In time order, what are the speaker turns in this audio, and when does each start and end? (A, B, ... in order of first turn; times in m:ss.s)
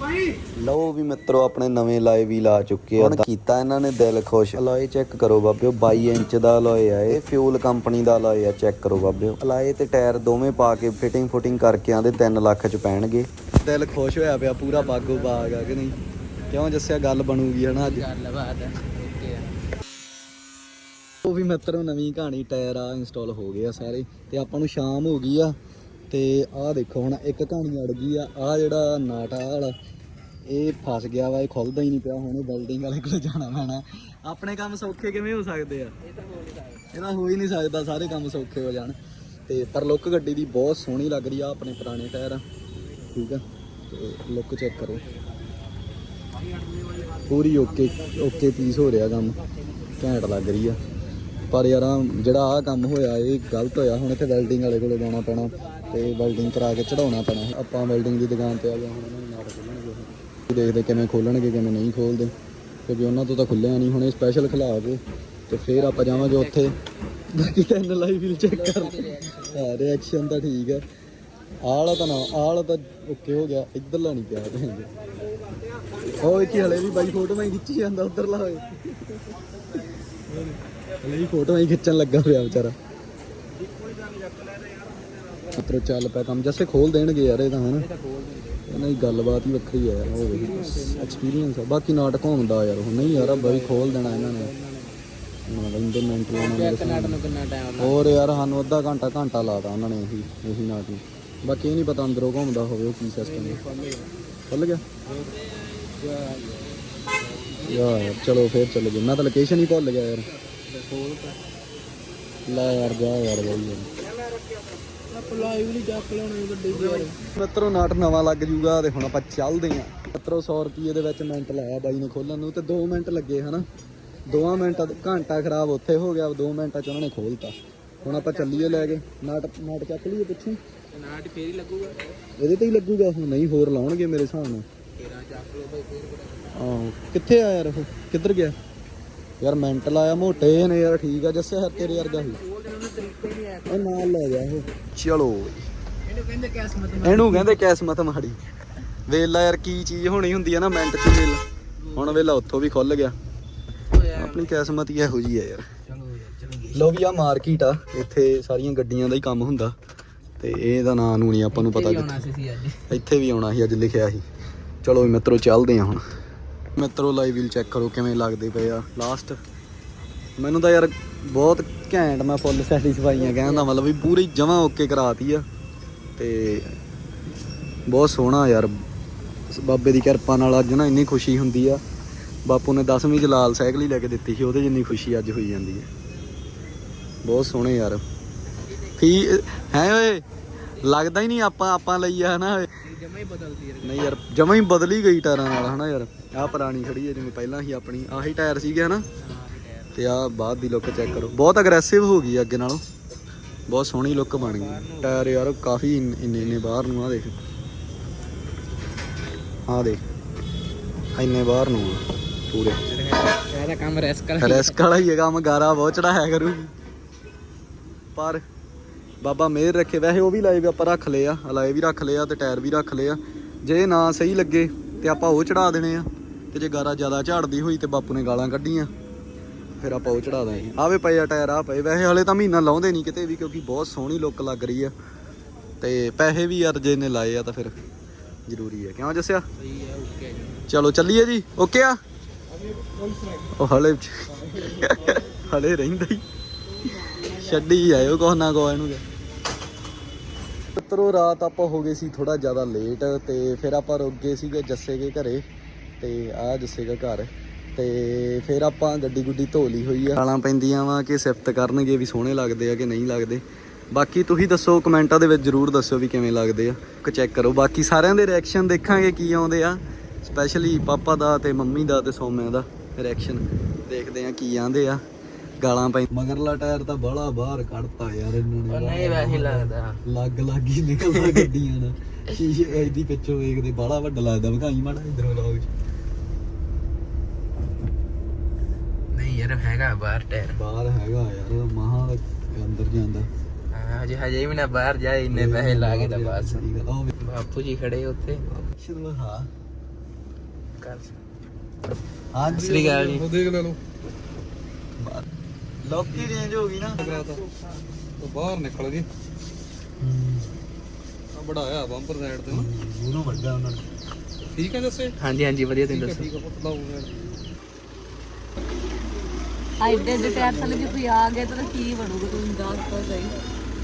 0:00.6-0:16.0 A
0:14.7-0:15.9 B
0:16.5-0:18.1 A
0:17.7-0:19.5 B
0:21.2-0:25.6 A
0:26.1-0:29.7 A
0:30.4-0:35.9 A
0:36.0-0:36.9 B
0:36.9-0:39.0 A
0:39.5-0:42.4 A
0:43.1-0:45.0 A
0:47.3-0:49.4 A
0:50.0-0:50.8 A
0:51.5-1:02.3 A
1:02.9-1:06.8 A
1:05.8-1:06.7 B
1:07.3-1:10.8 A
1:08.4-1:09.8 B
1:11.6-1:14.9 A
1:16.0-1:18.7 A
1:20.4-1:22.8 A
1:25.6-1:27.9 A
1:27.8-1:28.6 B
1:28.7-1:34.5 A
1:30.0-1:31.3 B
1:33.0-1:35.0 B
1:35.5-1:37.2 A
1:36.4-1:38.4 B
1:37.8-1:43.6 A
1:43.2-1:44.1 B
1:44.5-1:44.8 A
1:45.0-1:45.4 B
1:46.0-1:46.8 B
1:47.4-1:47.9 B
1:47.6-1:50.3 A
1:50.7-1:51.4 B
1:52.5-1:53.9 A
1:55.1-1:57.2 B
1:57.2-2:03.6 A
2:04.3-2:10.6 A
2:08.1-2:09.0 B
2:10.9-2:12.2 B
2:12.4-2:14.6 A
2:14.9-2:16.6 B
2:16.5-2:18.6 A
2:19.4-2:22.4 A
2:21.8-2:24.0 B
2:23.7-2:25.6 A
2:26.1-2:27.6 B
2:27.0-2:28.4 A
2:29.1-2:31.4 A
2:31.9-2:32.2 B
2:31.9-2:33.2 A
2:33.9-2:34.8 B
2:34.1-2:35.7 A
2:35.8-2:36.9 B
2:36.7-2:39.7 A
2:40.4-2:42.3 A
2:41.5-2:42.9 B
2:42.9-2:44.2 A
2:44.8-2:46.0 A
2:46.8-2:49.4 A
2:50.4-2:55.4 A
2:53.3-2:53.6 B
2:56.2-2:56.8 A
2:57.9-2:58.7 A
2:59.5-3:01.8 A
3:02.4-3:05.9 A
3:07.2-3:08.0 A
3:09.0-3:10.2 A
3:10.8-3:12.7 A
3:12.8-3:14.2 B
3:13.8-3:19.0 A
3:19.2-3:20.2 B
3:19.9-3:22.8 A
3:23.7-3:27.3 A
3:24.3-3:25.5 B
3:29.7-3:30.0 A
3:31.2-3:32.8 A
3:32.9-3:34.8 B
3:34.4-3:36.7 A
3:38.2-3:38.4 A
3:39.2-3:48.9 A
3:49.8-3:54.9 A
3:49.9-3:50.7 B
3:55.8-3:57.7 A
3:58.5-3:59.4 A
3:59.6-4:00.6 B
4:00.7-4:02.0 A
4:03.4-4:06.2 A
4:07.0-4:09.0 A
4:10.8-4:15.4 A
4:16.0-4:35.0 A
4:35.6-4:45.7 A
4:38.6-4:40.0 B
4:49.1-4:50.6 B
4:50.5-4:53.3 A
4:53.7-4:58.4 B
4:55.3-4:57.1 A
4:58.4-4:59.5 A
5:00.8-5:01.2 B
5:02.3-5:03.0 A
5:02.5-5:03.8 C
5:02.5-5:03.3 B
5:05.0-5:05.2 A
5:05.8-5:07.1 A
5:06.9-5:07.4 C
5:08.2-5:09.1 C
5:10.0-5:10.6 A
5:11.3-5:12.7 C
5:12.5-5:13.8 A
5:14.5-5:15.1 C
5:15.2-5:16.3 B
5:15.8-5:17.4 C
5:19.8-5:23.4 D
5:20.0-5:20.6 C
5:20.6-5:20.9 B